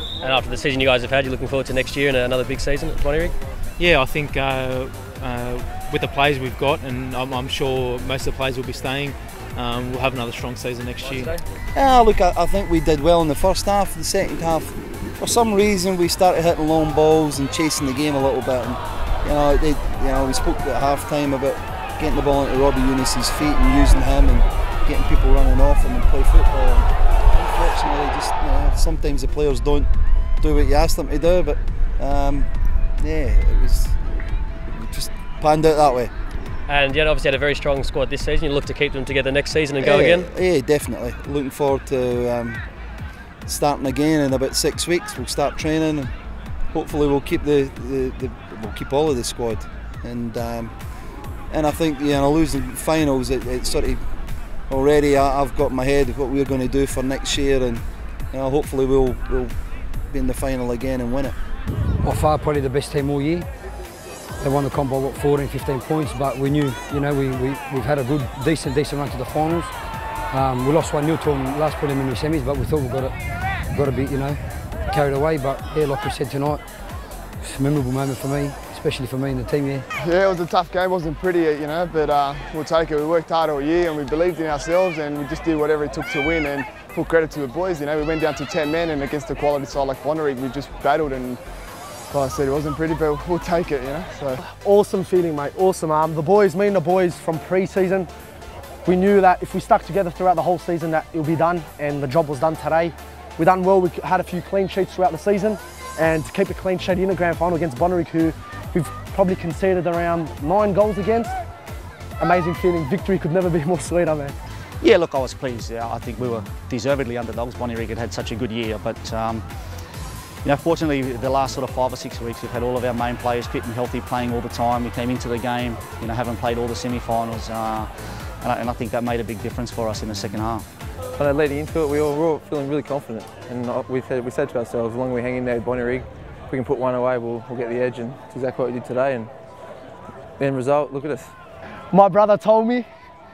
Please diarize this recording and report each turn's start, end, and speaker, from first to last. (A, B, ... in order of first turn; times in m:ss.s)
0:00.2-0:03.4 A
0:03.8-0:11.4 B
0:11.7-0:29.9 C
0:30.4-0:34.0 C
0:34.7-0:36.1 C
0:36.7-0:40.3 A
0:39.8-0:42.7 C
0:43.4-0:46.1 C
0:46.7-0:50.8 C
0:51.5-0:54.0 C
0:54.7-0:59.5 C
1:00.1-1:01.4 C
1:02.0-1:03.4 D
1:04.4-1:09.7 D
1:10.3-1:13.1 D
1:13.7-1:14.4 D
1:14.9-1:16.6 D
1:17.4-1:19.8 D
1:20.0-1:31.4 E
1:32.1-1:34.4 E
1:34.4-1:38.1 F
1:38.8-1:51.4 F
1:52.2-1:54.3 F
1:54.8-1:59.4 G
2:00.4-2:10.6 G
2:11.2-2:19.3 H
2:20.4-2:21.3 H
2:21.9-2:22.9 F